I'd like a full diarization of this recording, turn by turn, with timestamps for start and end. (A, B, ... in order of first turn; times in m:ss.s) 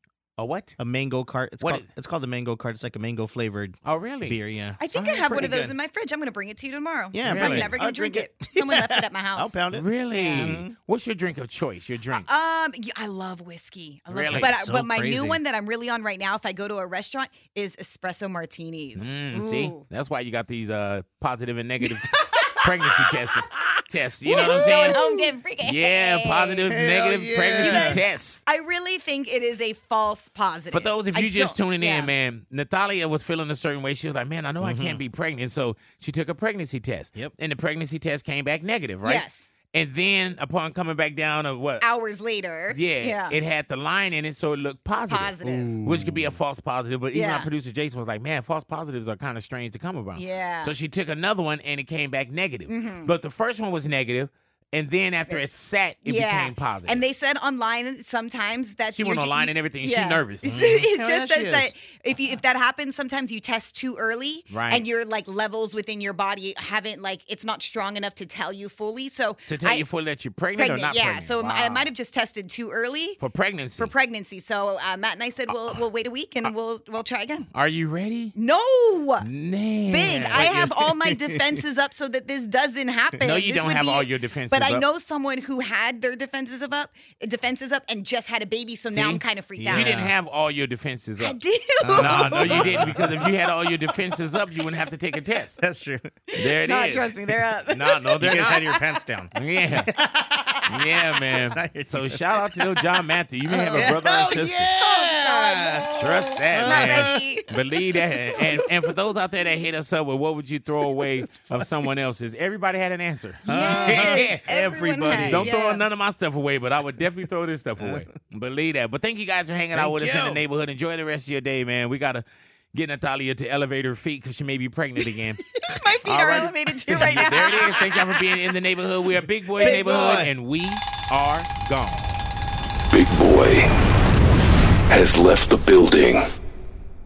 0:00.4-0:00.8 A
0:00.8-0:05.7 B
0:01.6-0:01.9 A
0:03.8-0:04.4 A
0:04.8-0:09.6 C
0:07.1-0:10.7 B
0:07.2-0:07.7 A
0:09.7-0:12.3 A
0:10.2-0:10.6 C
0:12.1-0:19.8 C
0:14.1-0:14.7 A
0:14.2-0:15.4 B
0:19.0-0:25.0 A
0:21.8-0:22.6 C
0:24.2-0:26.7 C
0:24.6-0:25.1 B
0:25.6-0:28.4 A
0:26.6-0:28.0 B
0:27.6-0:32.1 C
0:30.7-0:41.8 A
0:34.6-0:35.0 B
0:39.0-0:39.5 C
0:41.8-0:43.4 C
0:42.7-0:57.0 A
0:45.1-0:45.7 C
0:45.4-0:46.4 B
0:47.1-0:47.5 C
0:50.2-0:50.7 C
0:52.7-0:53.1 C
0:56.0-1:09.8 C
0:58.9-1:00.6 A
1:00.4-1:02.4 B
1:04.5-1:04.8 A
1:09.5-1:11.9 A
1:10.6-1:13.2 C
1:13.2-1:13.9 A
1:13.8-1:17.5 C
1:17.5-1:18.3 A
1:18.4-1:19.3 C
1:19.2-1:20.7 A
1:19.9-1:29.9 C
1:20.3-1:21.6 B
1:23.2-1:24.8 A
1:28.9-1:31.4 A
1:29.6-1:30.1 B
1:31.2-1:33.3 C
1:31.8-1:33.3 B
1:31.9-1:35.6 A
1:35.6-1:36.2 B
1:36.4-1:37.1 A
1:36.6-1:38.8 C
1:37.7-1:38.7 A
1:38.2-1:40.8 B
1:39.3-1:39.9 A
1:40.7-1:44.7 A
1:41.3-1:42.5 B
1:43.5-1:47.3 B
1:43.7-1:44.2 C
1:44.8-1:47.4 C
1:46.0-1:54.4 A
1:48.4-1:48.6 B
1:51.0-1:51.7 B
1:53.4-1:55.5 B
1:53.5-1:55.8 C
1:55.1-2:05.4 A
1:57.8-1:58.0 B
1:59.7-2:00.4 B
2:05.7-2:07.9 C
2:06.0-2:12.2 A
2:06.9-2:07.7 B
2:09.5-2:10.3 B
2:09.6-2:10.1 C
2:12.9-2:13.7 D
2:14.9-2:16.2 D